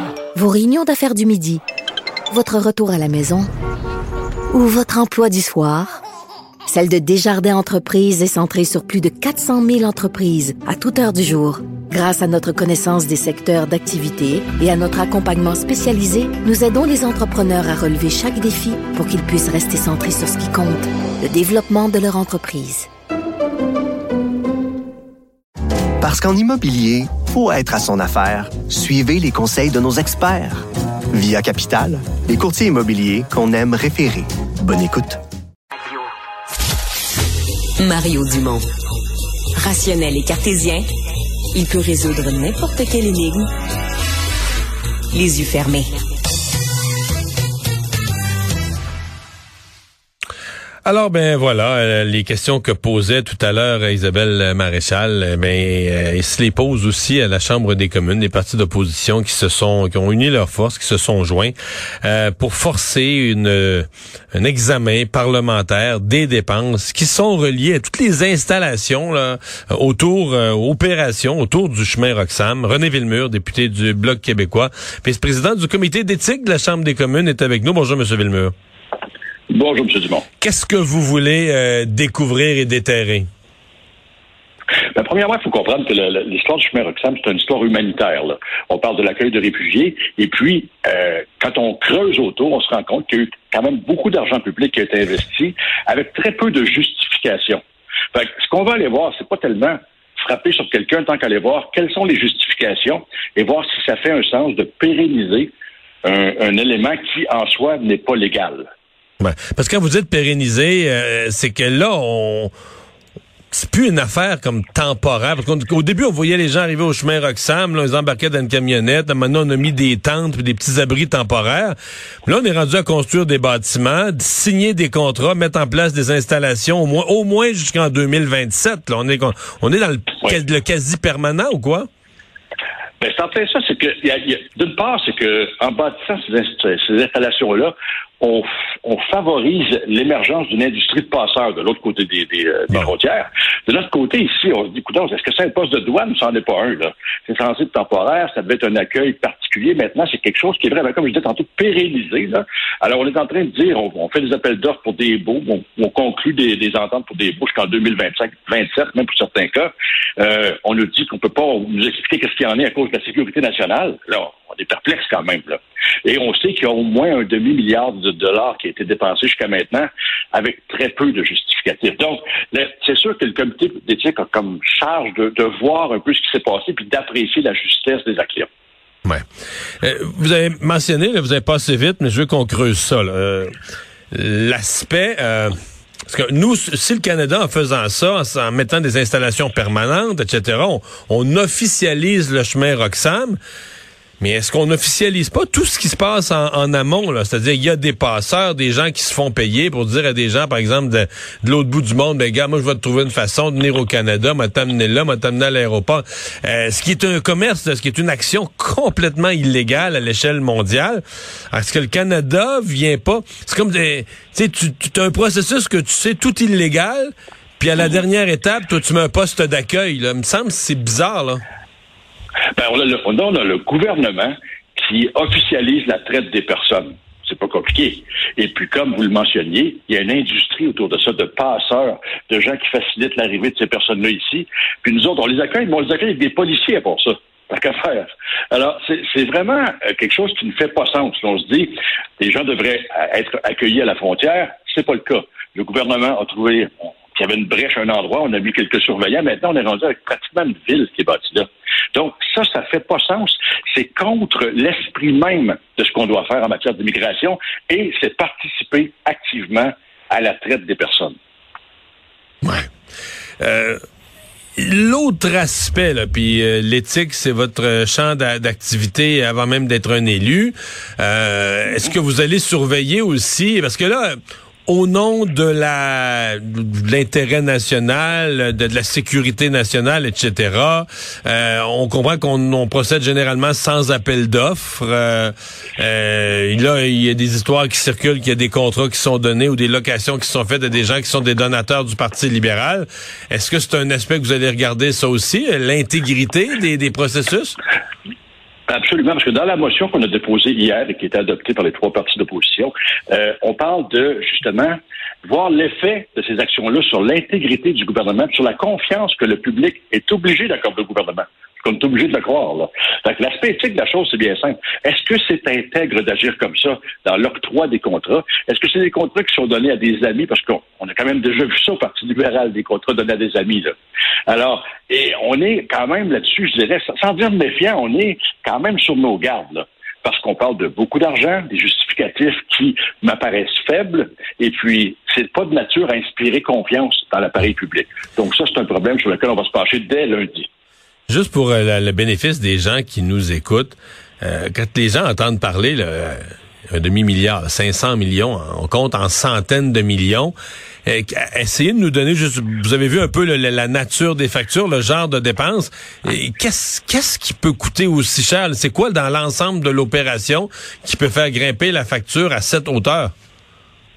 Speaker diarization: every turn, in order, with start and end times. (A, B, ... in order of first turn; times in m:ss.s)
0:00.4-0:01.6 A
0:02.3-0:03.5 A
0:04.5-0:06.0 A
0:06.7-0:22.9 A
0:26.0-0:35.2 B
0:37.8-0:38.7 C
0:39.6-0:40.9 C
0:41.5-0:43.5 C
0:45.1-0:45.9 C
0:50.8-1:18.5 D
1:19.5-1:20.3 E
1:20.4-1:23.3 D
1:25.0-1:37.6 E
1:38.1-1:45.5 E
1:46.0-1:48.7 E
1:49.2-1:52.5 D
1:53.5-2:01.8 D
2:02.3-2:11.9 D
2:13.0-2:58.5 E
2:59.8-3:03.5 D
3:04.1-3:05.5 D
3:06.1-3:13.4 D
3:14.2-3:41.4 D
3:42.6-4:21.2 E
4:22.4-4:22.7 D
4:23.4-4:23.8 D
4:24.6-4:57.6 D
4:58.7-5:23.8 E
5:24.3-5:40.5 E
5:41.1-5:46.2 D
5:46.7-5:50.3 D
5:50.9-6:03.1 D